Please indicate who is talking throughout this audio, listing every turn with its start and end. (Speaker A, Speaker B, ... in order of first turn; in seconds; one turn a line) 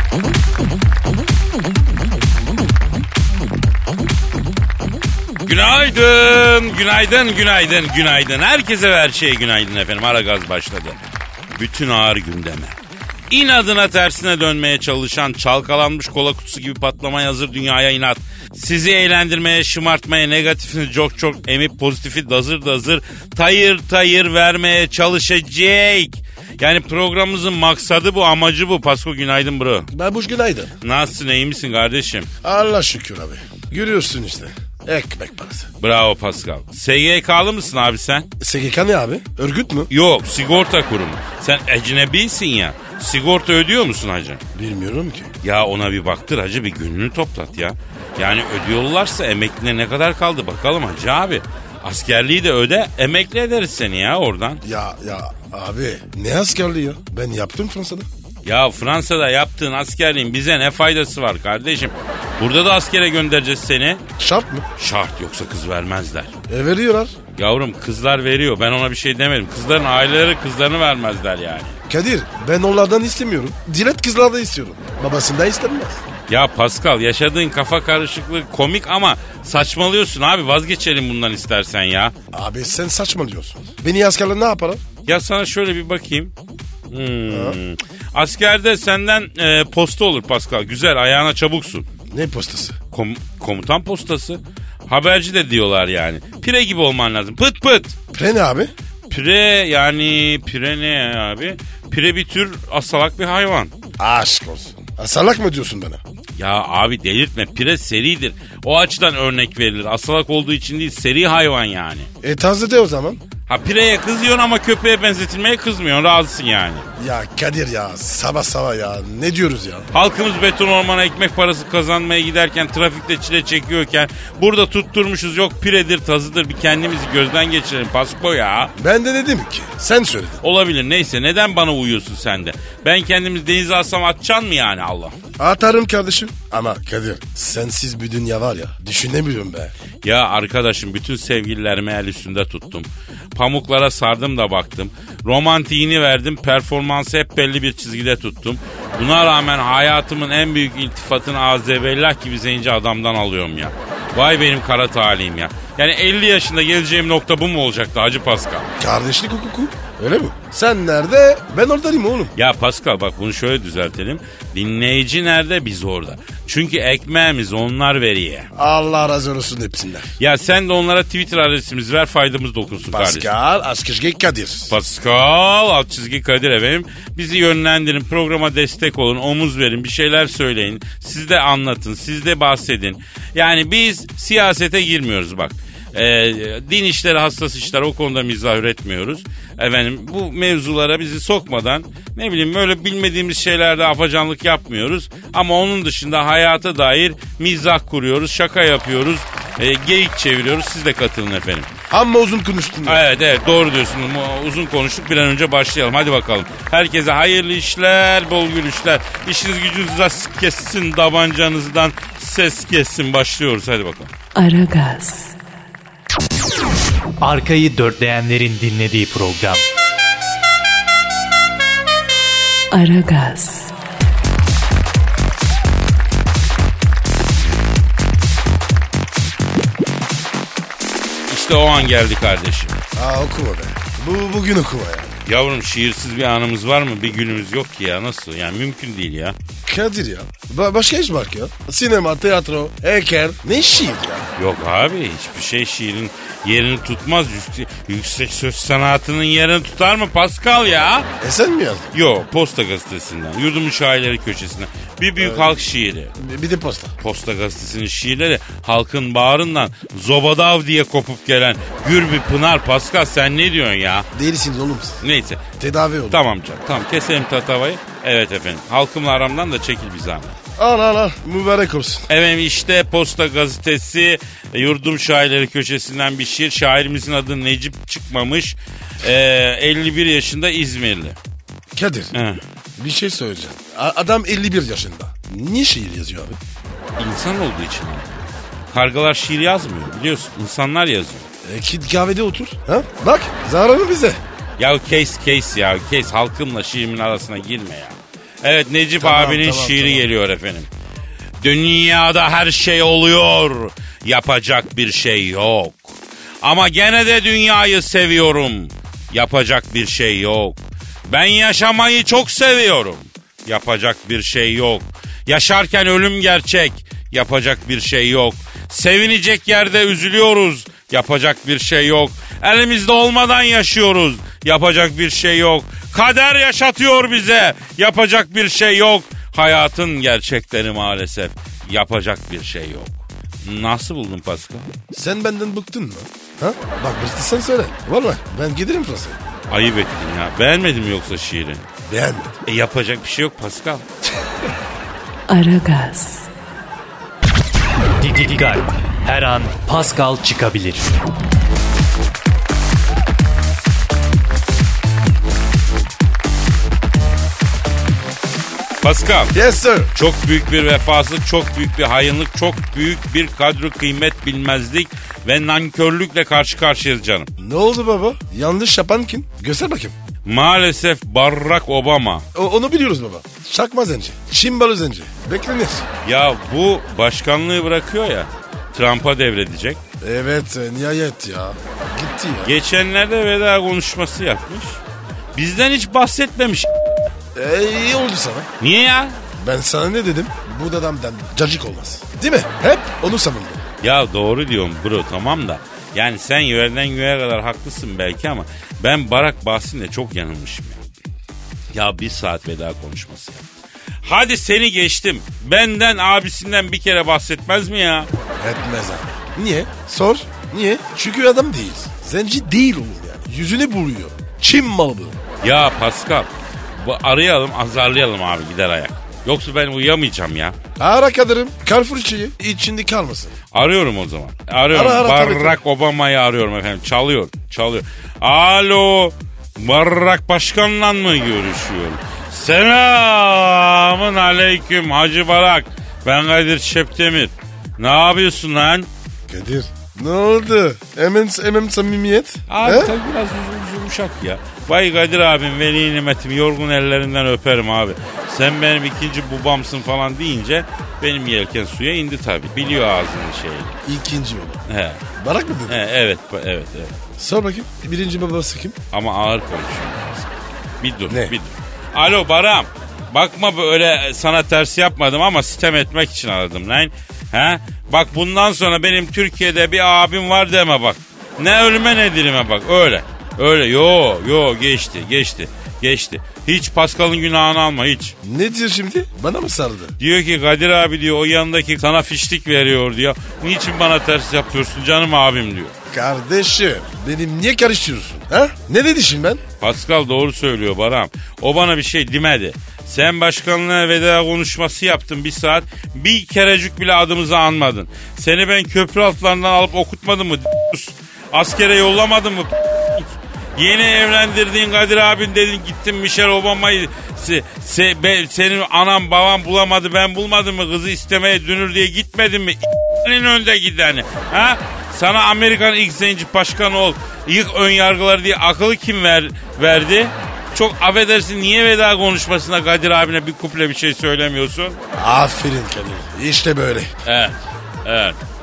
Speaker A: 5.5-11.0
Speaker A: 11.5-12.8
Speaker A: 13.3-29.9
Speaker B: 29.9-30.7
Speaker A: 30.8-32.3
Speaker B: 32.4-35.7
Speaker A: 35.8-38.3
Speaker B: 38.4-39.9
Speaker A: 39.9-44.4
Speaker B: 44.5-45.3
Speaker A: 45.4-54.6
Speaker B: 54.6-58.1
Speaker A: 58.5-64.0
Speaker B: 64.2-64.7
Speaker A: 64.8-66.3
Speaker B: 66.5-67.2
Speaker A: 67.4-71.8
Speaker B: 71.9-76.0
Speaker A: 76.3-82.2
Speaker B: 82.3-84.8
Speaker A: 85.1-86.3
Speaker A: 86.9-91.9
Speaker B: 87.3-87.6
Speaker B: 92.1-92.8
Speaker A: 92.9-98.0
Speaker B: 98.1-98.7
Speaker A: 99.1-103.7
Speaker B: 104.0-106.0
Speaker A: 106.4-112.1
Speaker B: 112.2-113.2
Speaker A: 113.5-116.9
Speaker B: 117.0-119.9
Speaker A: 119.9-128.7
Speaker B: 128.8-130.4
Speaker A: 130.4-135.2
Speaker B: 135.4-139.7
Speaker A: 140.0-158.8
Speaker B: 158.8-162.3
Speaker A: 162.4-168.5
Speaker B: 168.6-170.1
Speaker A: 170.2-173.3
Speaker B: 172.9-174.7
Speaker A: 174.7-201.7
Speaker B: 201.9-203.0
Speaker A: 202.9-214.1
Speaker C: 214.3-215.4
Speaker D: 217.2-219.6
Speaker C: 222.7-223.7
Speaker A: 231.3-232.8
Speaker B: 232.9-235.2
Speaker A: 235.3-239.4
Speaker B: 239.7-244.3
Speaker A: 244.4-251.1
Speaker B: 251.2-251.9
Speaker A: 251.9-256.1
Speaker B: 255.2-255.6
Speaker B: 256.2-256.9
Speaker A: 257.0-264.1
Speaker B: 264.1-265.0
Speaker A: 265.0-265.4
Speaker B: 265.6-266.2
Speaker A: 266.1-270.4
Speaker B: 270.6-272.1
Speaker A: 272.1-281.2
Speaker B: 281.8-282.1
Speaker A: 282.1-282.4
Speaker B: 282.8-286.4
Speaker A: 287.0-291.3
Speaker B: 291.4-294.2
Speaker A: 294.6-300.7
Speaker B: 299.0-300.0
Speaker A: 301.4-334.7
Speaker B: 334.9-339.2
Speaker A: 339.5-341.7
Speaker B: 341.9-342.4
Speaker A: 342.5-343.9
Speaker C: 345.3-346.3
Speaker D: 348.0-350.9
Speaker A: 358.8-359.4
Speaker B: 359.3-359.9
Speaker A: 359.9-367.3
Speaker B: 367.4-369.9
Speaker A: 370.2-372.3
Speaker B: 372.4-375.9
Speaker A: 376.1-379.8
Speaker B: 380.0-382.6
Speaker A: 382.4-384.8
Speaker A: 385.4-386.7
Speaker B: 387.4-388.5
Speaker A: 388.6-389.2
Speaker B: 389.4-393.6
Speaker A: 393.8-400.8
Speaker A: 401.7-403.5
Speaker A: 404.0-408.1
Speaker B: 408.4-415.2
Speaker A: 415.4-420.6
Speaker B: 420.8-423.3
Speaker A: 423.5-438.9
Speaker B: 424.7-425.6
Speaker B: 439.3-442.9
Speaker A: 442.5-453.8
Speaker B: 453.9-454.6
Speaker A: 454.7-455.0
Speaker B: 455.2-455.8
Speaker A: 455.7-456.9
Speaker B: 457.2-458.8
Speaker A: 458.9-460.3
Speaker A: 460.8-478.1
Speaker B: 478.2-479.9
Speaker A: 480.0-485.7
Speaker B: 485.9-489.4
Speaker A: 489.6-524.8
Speaker B: 525.0-526.9
Speaker A: 527.0-528.2